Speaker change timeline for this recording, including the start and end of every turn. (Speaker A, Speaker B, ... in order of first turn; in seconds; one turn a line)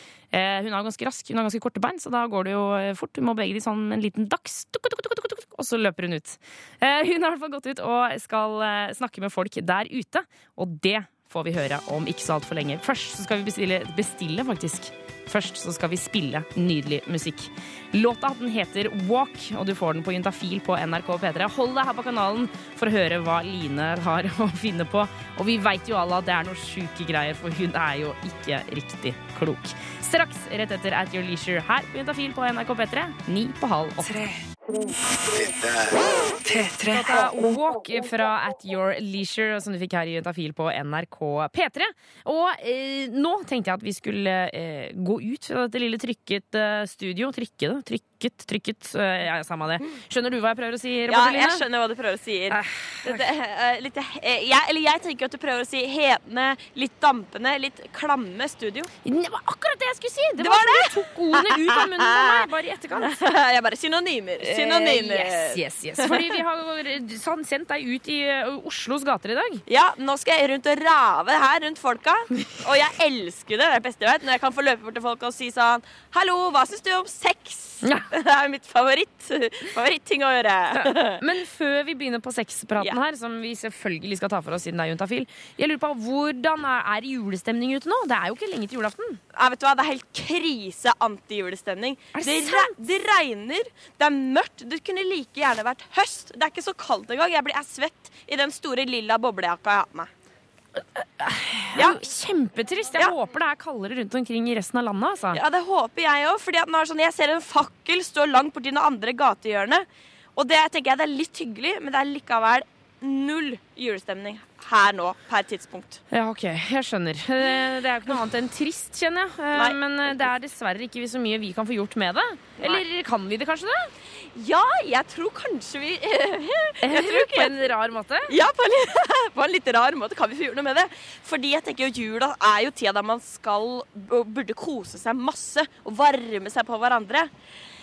Speaker A: 0.3-34.2
Speaker A: 36.8-51.6
Speaker B: 51.1-58.9
Speaker A: 52.5-53.2
Speaker A: 59.0-63.2
Speaker B: 60.4-62.5
Speaker B: 63.0-66.4
Speaker A: 64.4-69.6
Speaker B: 69.7-81.2
Speaker A: 80.7-89.2
Speaker B: 89.3-100.1
Speaker A: 92.1-92.7
Speaker A: 100.8-105.4
Speaker B: 105.3-116.0
Speaker A: 116.1-123.9
Speaker B: 124.2-127.6
Speaker A: 126.8-128.3
Speaker B: 128.3-137.3